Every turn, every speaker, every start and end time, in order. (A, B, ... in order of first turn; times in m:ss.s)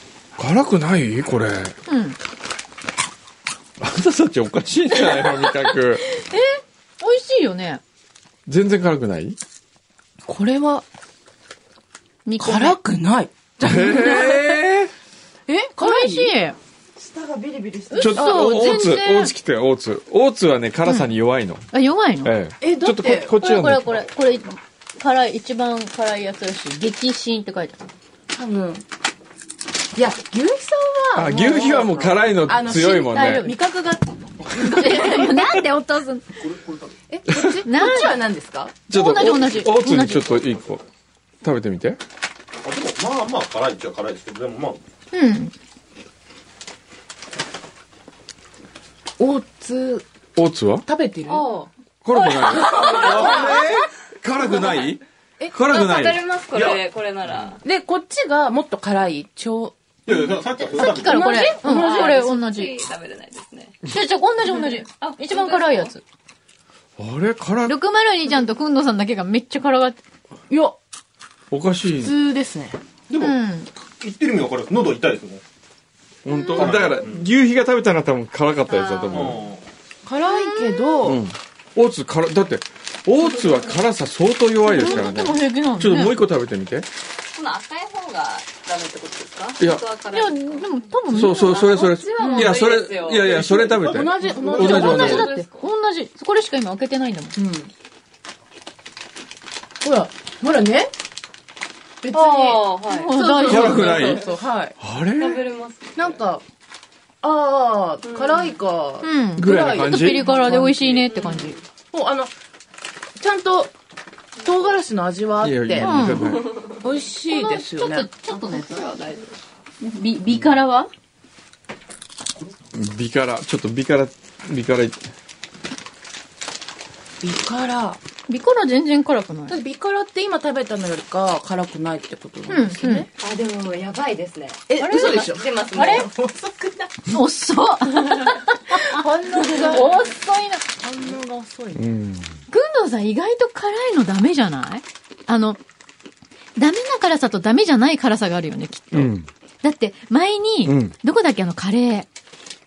0:00.4-0:01.8 A
0:01.9-0:02.2 B
0:03.8-0:06.1 A
0:05.0-0:07.8 B
0:08.5-0:09.4 A
0:10.2-0:10.8 C
0:12.3-0:12.8 B
0:12.4-0:14.6 C
0:13.6-0:14.9 A
0:15.5-0:16.3 C
0:15.8-0:16.6 B
0:17.0-0:18.8 C
0:17.9-0:19.3 B
0:18.0-0:21.7 A
0:20.8-0:21.1 B
0:21.7-0:22.4 B
0:22.2-0:24.0 A
0:22.6-0:23.3 C
0:23.4-0:27.9 B
0:28.3-0:28.8 C
0:30.0-0:35.6 C
0:31.2-0:33.5 A
0:33.0-0:33.6 B
0:34.6-0:36.3 B
0:36.4-0:37.0 D
0:37.1-0:39.5 C
0:37.3-0:37.6 A
0:37.6-0:38.2 B
0:38.9-0:40.4 B
0:38.9-0:40.8 A
0:41.4-0:42.0 A
0:42.6-0:44.8 D
0:45.1-0:45.5 B
0:49.2-0:50.1 C
0:50.4-0:50.9 A
0:50.9-0:51.7 C
0:51.3-0:53.7 E
0:52.0-0:56.8 A
0:52.5-0:53.5 C
0:55.6-0:57.6 E
0:57.6-0:59.8 C
1:00.1-1:01.3 D
1:00.7-1:02.8 B
1:00.8-1:02.2 C
1:01.0-1:03.8 E
1:03.9-1:06.0 B
1:04.5-1:06.0 E
1:07.0-1:07.8 A
1:07.7-1:10.0 B
1:10.5-1:10.8 C
1:11.5-1:12.2 A
1:12.0-1:12.8 C
1:13.1-1:13.4 D
1:13.2-1:13.7 B
1:14.0-1:15.4 D
1:16.2-1:19.4 A
1:16.3-1:16.8 B
1:16.6-1:17.3 D
1:18.7-1:19.3 E
1:19.1-1:19.6 D
1:20.1-1:21.2 C
1:20.3-1:21.0 B
1:21.0-1:26.9 A
1:24.6-1:26.2 B
1:27.3-1:35.7 E
1:29.6-1:29.8 A
1:30.1-1:32.5 B
1:31.1-1:35.3 A
1:33.4-1:35.4 C
1:34.5-1:37.4 B
1:37.4-1:37.7 C
1:39.8-1:40.9 C
1:42.0-1:44.8 C
1:42.1-1:44.3 E
1:42.9-1:44.0 B
1:43.5-1:44.2 A
1:44.8-1:45.4 A
1:45.2-1:46.2 E
1:46.0-1:46.4 C
1:47.2-1:51.0 C
1:48.1-1:48.6 E
1:49.0-1:51.6 B
1:49.4-1:50.2 A
1:50.5-1:51.6 E
1:51.9-1:52.3 C
1:53.2-1:53.7 C
1:54.4-1:56.1 C
1:55.4-1:56.6 A
1:55.8-1:56.4 B
1:56.2-1:56.8 E
1:56.8-1:58.6 C
1:57.3-1:58.8 B
1:58.5-1:59.4 E
1:59.8-2:00.9 B
2:02.7-2:05.0 A
2:07.2-2:08.0 C
2:08.3-2:09.6 B
2:09.5-2:13.1 C
2:12.5-2:13.1 B
2:13.2-2:16.1 E
2:14.7-2:17.0 C
2:14.8-2:16.0 B
2:17.1-2:20.6 B
2:18.7-2:20.1 C
2:20.7-2:21.9 C
2:21.7-2:22.4 A
2:22.5-2:25.6 B
2:26.6-2:32.1 B
2:28.9-2:29.3 A
2:30.6-2:31.0 A